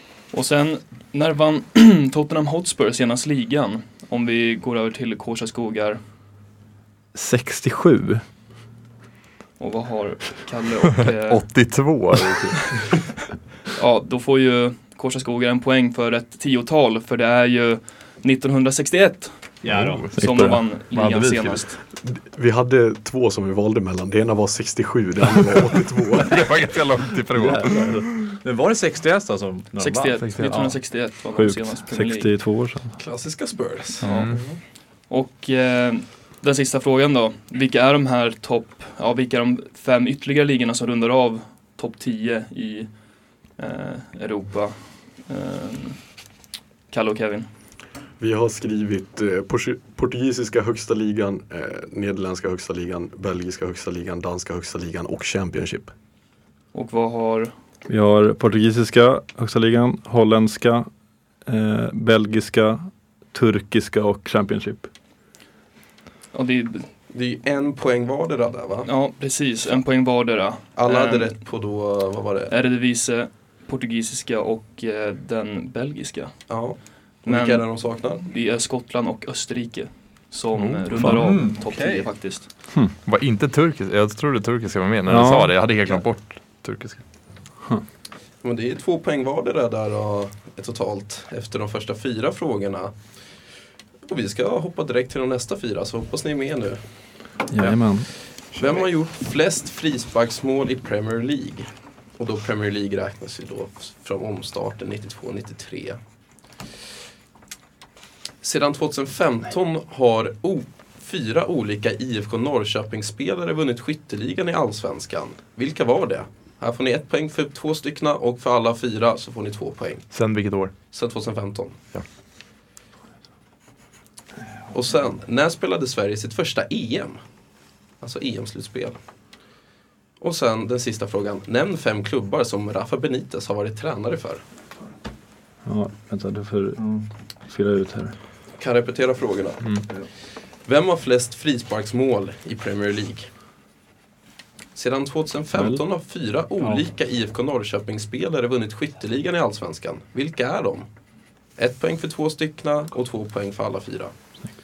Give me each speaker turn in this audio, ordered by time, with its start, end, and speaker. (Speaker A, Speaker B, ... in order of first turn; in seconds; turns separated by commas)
Speaker A: 0.3-6.0, Speaker B: 7.1-8.2, Speaker A: 9.6-11.4, Speaker C: 11.3-12.8, Speaker A: 13.8-19.3, Speaker D: 19.6-20.1, Speaker C: 19.7-20.1, Speaker A: 20.1-21.8, Speaker B: 20.2-20.6, Speaker C: 20.9-21.6, Speaker E: 22.1-26.5, Speaker C: 26.2-28.0, Speaker B: 27.4-28.1, Speaker D: 28.4-30.7, Speaker A: 29.8-32.3, Speaker C: 30.2-30.7, Speaker B: 31.3-33.0, Speaker F: 33.0-34.6, Speaker C: 34.0-34.4, Speaker A: 34.0-34.4, Speaker A: 35.1-42.9, Speaker A: 43.6-46.0, Speaker A: 46.9-47.5, Speaker E: 48.2-55.9, Speaker A: 56.7-57.5, Speaker B: 57.9-60.9, Speaker B: 61.5-64.9, Speaker A: 66.3-66.9, Speaker F: 67.1-68.9, Speaker A: 68.9-71.4, Speaker F: 70.8-72.5, Speaker A: 72.5-76.3, Speaker F: 76.5-78.2, Speaker A: 77.2-82.5, Speaker C: 80.5-80.8, Speaker B: 81.0-81.2, Speaker D: 81.0-82.1, Speaker C: 83.0-87.0, Speaker B: 85.1-85.6, Speaker F: 88.4-93.0, Speaker F: 94.0-96.8, Speaker B: 97.5-98.1, Speaker F: 98.5-106.0, Speaker F: 108.4-120.0, Speaker C: 120.1-120.7, Speaker F: 120.9-121.8, Speaker F: 124.7-127.2, Speaker F: 128.0-129.0, Speaker F: 130.2-134.4, Speaker B: 135.7-138.2, Speaker D: 136.8-137.1, Speaker F: 138.6-139.8, Speaker F: 140.6-143.3, Speaker F: 144.8-150.9, Speaker B: 145.5-145.8, Speaker D: 146.6-146.9, Speaker F: 151.6-154.1